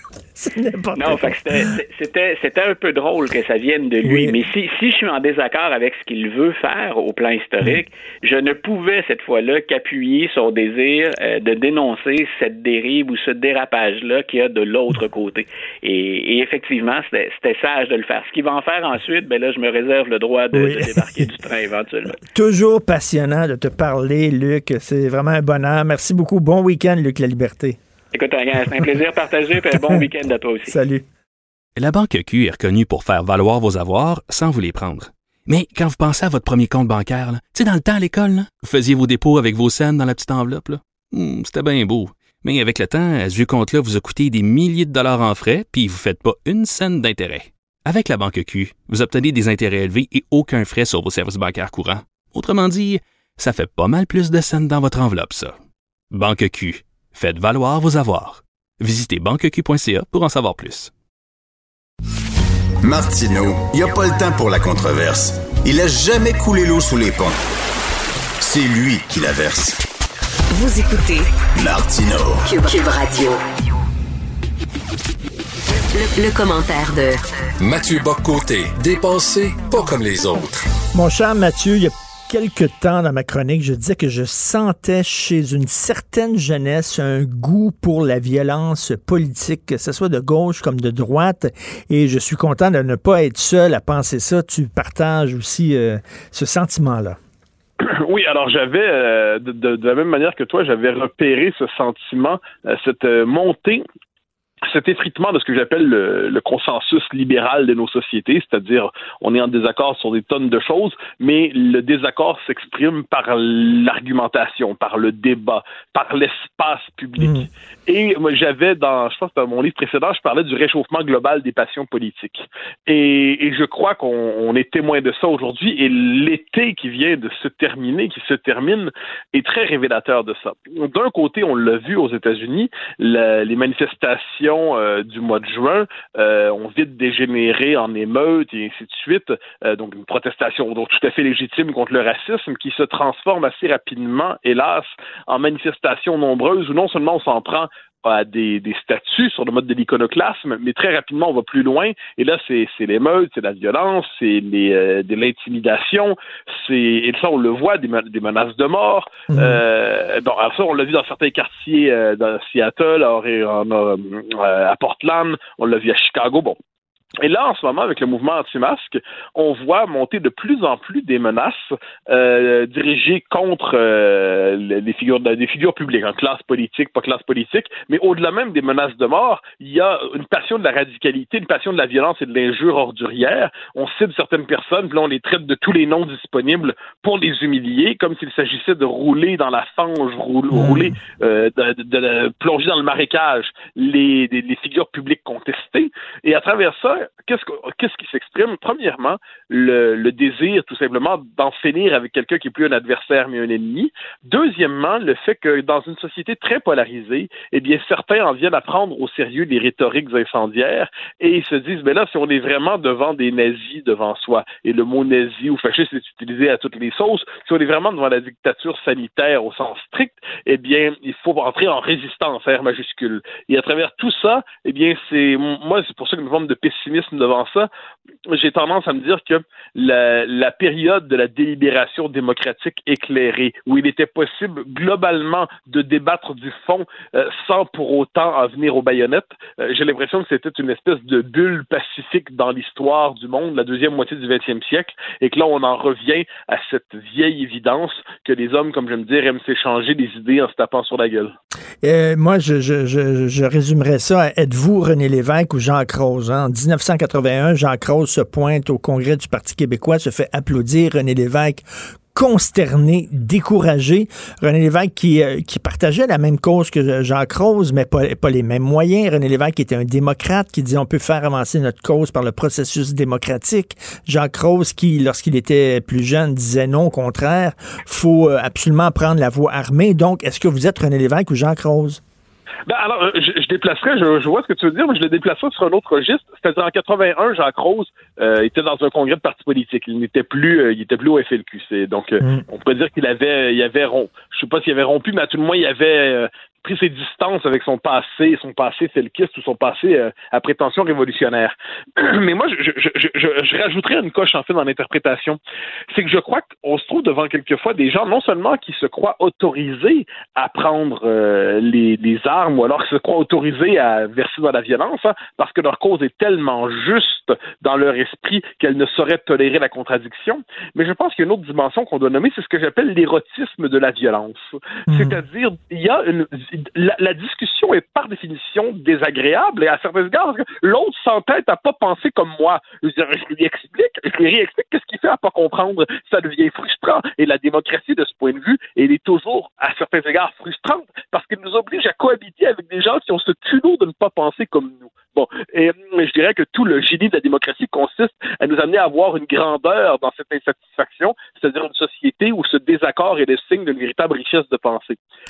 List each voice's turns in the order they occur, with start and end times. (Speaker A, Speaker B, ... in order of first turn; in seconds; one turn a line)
Speaker A: 0.3-1.6
Speaker B: 0.9-22.2
Speaker A: 4.0-4.4
Speaker A: 20.5-21.3
Speaker A: 22.2-27.8
Speaker B: 28.1-30.8
Speaker A: 29.7-30.0
Speaker A: 30.7-31.0
Speaker C: 31.8-55.6
Speaker C: 56.1-60.9
Speaker D: 62.8-67.4
Speaker D: 68.4-69.8
Speaker E: 70.5-71.3
Speaker D: 71.5-72.4
Speaker E: 72.4-73.4
Speaker E: 75.9-77.2
Speaker F: 77.6-80.7
Speaker A: 80.9-97.2
Speaker G: 97.8-103.8
Speaker G: 104.6-166.6
Speaker A: 117.2-117.5
Speaker A: 159.3-159.6
Speaker G: 167.2-227.7
Speaker A: 190.5-190.9
Speaker G: 228.3-251.3
Speaker A: 251.8-282.0
Speaker G: 282.7-305.4
Speaker G: 305.9-355.0
Speaker A: 324.9-325.2